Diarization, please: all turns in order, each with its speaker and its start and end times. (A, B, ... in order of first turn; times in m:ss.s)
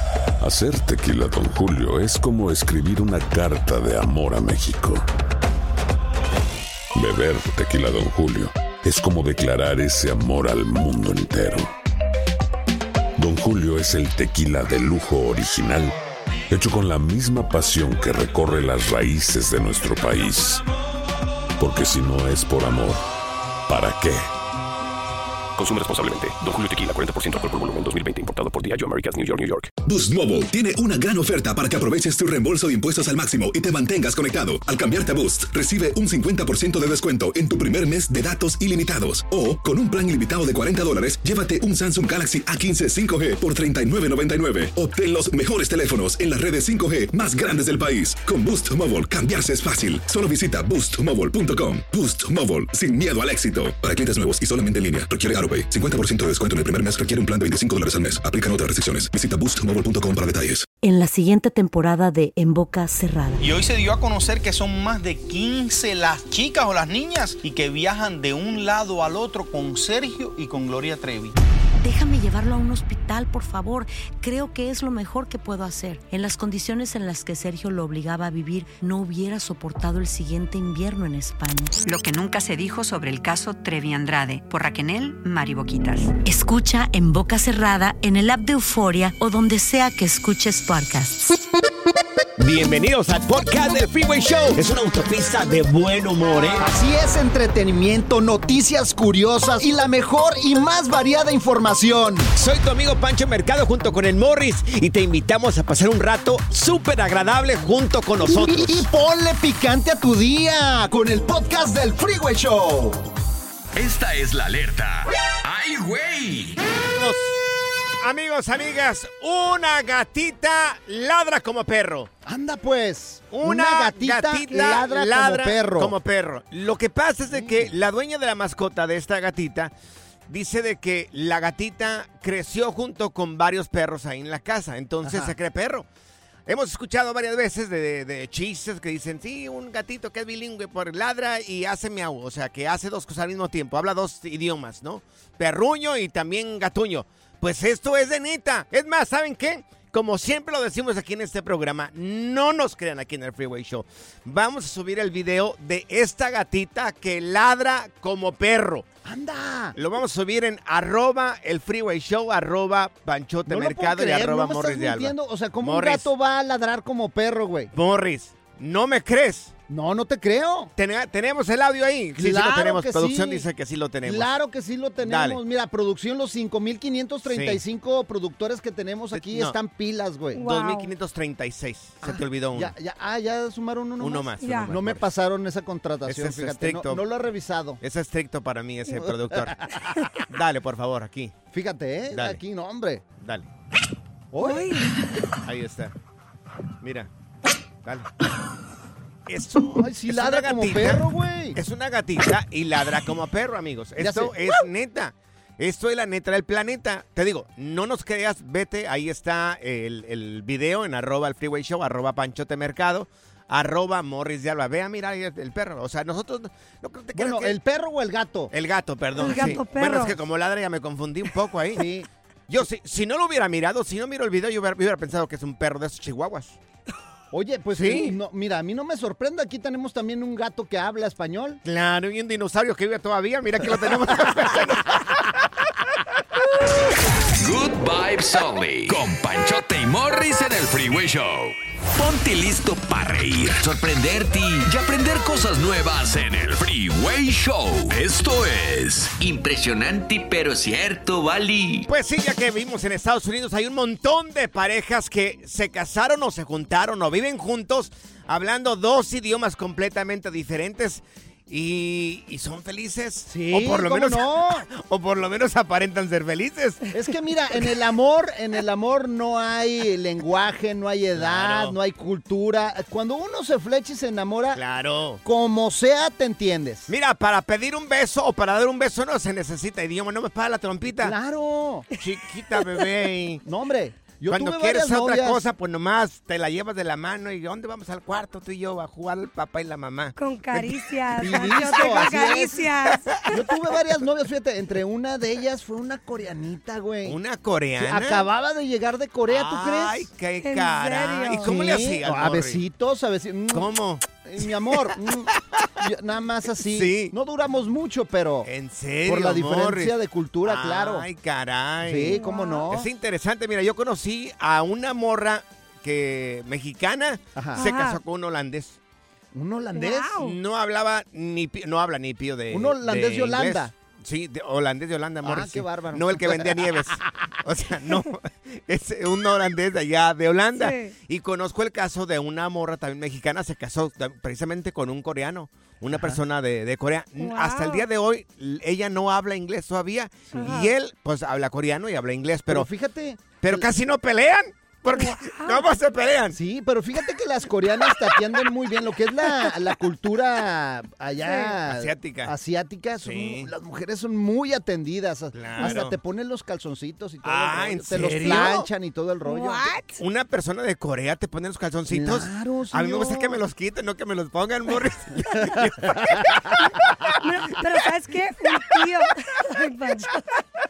0:00.4-0:05.0 A
0:06.9-0:11.7 A
0:13.2-0:15.9 A
0:16.5-0:20.6 A
0:21.6-0:23.0 A
0:23.7-0:24.2 A
0:25.6-0:29.7 B
0:29.8-1:00.6 C
1:00.8-1:03.4 D
1:03.4-1:11.3 E
1:11.8-1:21.8 D
1:21.8-1:26.1 F
1:26.2-1:31.3 D
1:32.4-1:36.6 G
1:36.6-1:42.2 H
1:42.4-1:48.8 G
1:48.2-1:53.0 H
1:53.7-1:56.6 I
1:56.9-1:57.4 G
1:58.0-2:02.1 G
2:02.2-2:05.9 H
2:03.3-2:09.7 G
2:07.3-2:07.7 H
2:10.3-2:15.8 G
2:15.0-2:15.3 H
2:16.4-2:38.8 G
2:39.0-2:39.8 H
2:39.8-2:46.1 G
2:43.5-2:47.7 H
2:47.7-2:49.5 G
2:49.7-2:50.7 H
2:50.8-2:54.3 G
2:52.2-2:53.4 H
2:54.0-3:00.4 H
2:55.0-2:55.4 G
2:57.3-2:57.6 G
2:59.1-2:59.6 G
3:00.4-3:00.9 J
3:00.4-3:02.7 G
3:02.0-3:07.8 H
3:04.0-3:05.0 G
3:04.4-3:04.7 J
3:06.0-3:07.0 G
3:07.8-3:09.6 G
3:08.9-3:10.1 H
3:10.3-3:11.3 G
3:11.5-3:13.0 H
3:12.1-3:12.4 G
3:13.2-3:13.5 G
3:14.3-3:14.8 H
3:14.4-3:14.9 J
3:15.4-3:15.9 G
3:16.8-3:17.1 G
3:19.3-3:37.6 G
3:19.7-3:21.6 H
3:24.0-3:24.6 H
3:37.1-3:38.5 H
3:38.5-3:41.9 G
3:39.2-3:40.2 J
3:39.2-3:39.6 H
3:41.7-3:42.1 H
3:42.5-3:46.6 G
3:47.3-3:51.6 H
3:47.7-3:48.1 G
3:51.6-3:55.4 G
3:57.4-4:11.9 I
4:11.8-4:26.9 G
4:23.3-4:24.6 H
4:26.9-4:34.6 H
4:31.1-4:31.8 G
4:34.5-4:35.2 G
4:35.2-4:36.9 H
4:36.9-4:41.1 G
4:41.0-4:41.8 H
4:42.0-4:43.4 G
4:43.4-4:45.4 H
4:44.3-4:53.2 G
4:50.2-4:53.4 J
4:51.2-4:52.7 H
4:53.3-4:57.2 H
4:57.0-4:58.2 G
4:57.8-5:00.0 H
4:59.3-5:02.6 G
5:00.4-5:01.6 J
5:01.4-5:03.7 H
5:03.5-5:04.0 G
5:04.2-5:08.5 H
5:06.6-5:07.1 G
5:08.4-5:09.9 G
5:09.0-5:11.0 H
5:10.4-5:18.8 G
5:11.8-5:12.8 H
5:12.1-5:12.8 J
5:17.4-5:17.6 H
5:17.6-5:18.0 J
5:19.3-5:20.2 H
5:19.7-5:20.4 J
5:20.2-5:42.7 G
5:22.5-5:23.7 H
5:25.2-5:27.2 H
5:30.5-5:30.9 J
5:35.9-5:36.2 H
5:37.2-5:37.8 J
5:40.3-5:40.7 J
5:42.5-5:43.6 H
5:43.4-5:46.4 G
5:44.9-5:45.7 J
5:46.3-5:59.7 H
5:51.2-5:51.5 J
5:51.6-5:52.3 G
5:53.0-5:53.5 G
5:55.3-5:55.9 G
5:55.6-5:55.8 J
5:57.2-5:58.7 G
5:58.2-5:58.4 J
5:59.2-6:00.0 J
6:00.0-6:06.7 G
6:01.9-6:03.4 H
6:07.2-6:10.2 J